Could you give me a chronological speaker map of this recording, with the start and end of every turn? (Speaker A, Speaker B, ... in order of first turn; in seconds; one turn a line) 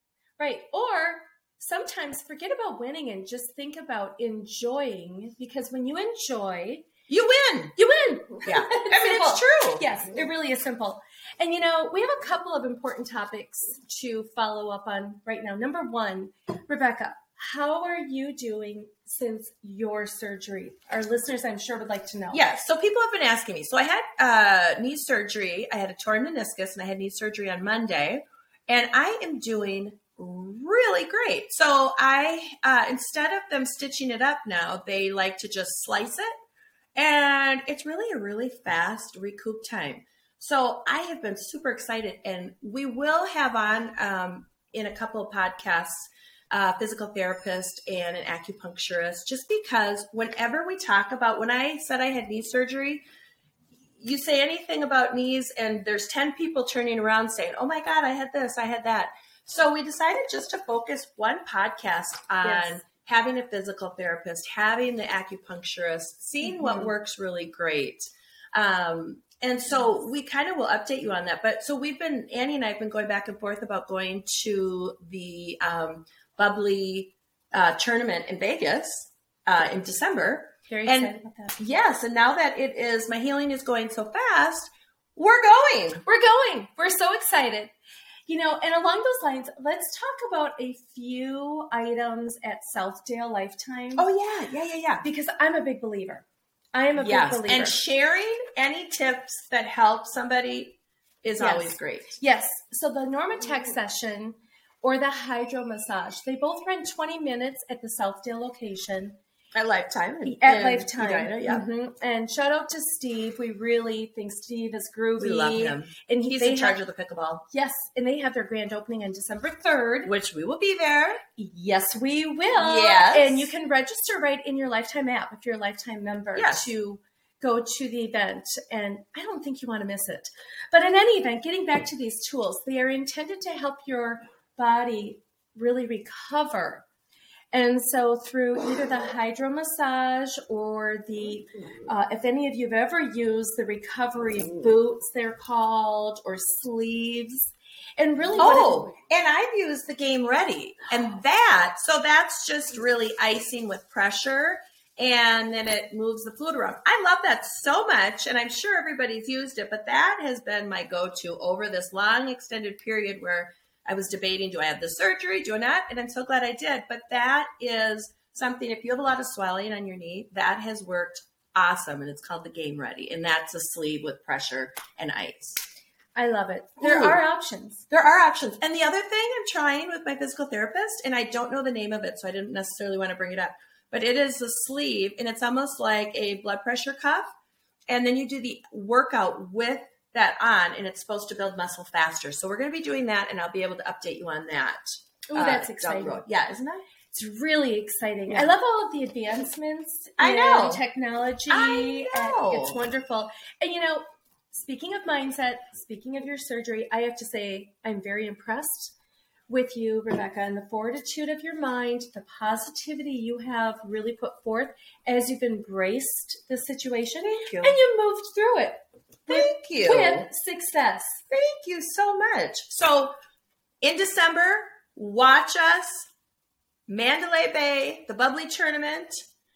Speaker A: 0.4-6.9
Speaker B: 7.1-7.8
Speaker A: 7.8-22.4
Speaker B: 8.4-9.8
Speaker B: 22.3-36.3
Speaker B: 37.0-53.0
Speaker B: 54.0-86.0
Speaker A: 62.4-62.8
Speaker A: 66.4-66.9
Speaker A: 80.7-81.6
Speaker A: 86.0-87.7
Speaker A: 88.3-94.1
Speaker B: 94.0-95.0
Speaker A: 95.0-97.8
Speaker B: 97.0-102.2
Speaker A: 101.4-109.2
Speaker B: 109.5-111.7
Speaker A: 110.2-116.8
Speaker B: 115.2-117.5
Speaker A: 117.5-120.1
Speaker B: 120.0-121.2
Speaker A: 121.4-136.8
Speaker B: 122.6-123.5
Speaker B: 126.3-126.7
Speaker A: 137.5-148.9
Speaker B: 148.4-175.6
Speaker A: 176.2-177.8
Speaker B: 176.8-177.2
Speaker B: 177.9-187.3
Speaker B: 187.9-196.9
Speaker A: 195.3-196.2
Speaker A: 197.1-208.9
Speaker B: 200.2-200.8
Speaker B: 201.5-202.8
Speaker A: 209.5-221.2
Speaker B: 217.3-217.8
Speaker B: 219.3-220.3
Speaker B: 221.3-223.2
Speaker B: 223.8-226.1
Speaker B: 226.9-229.2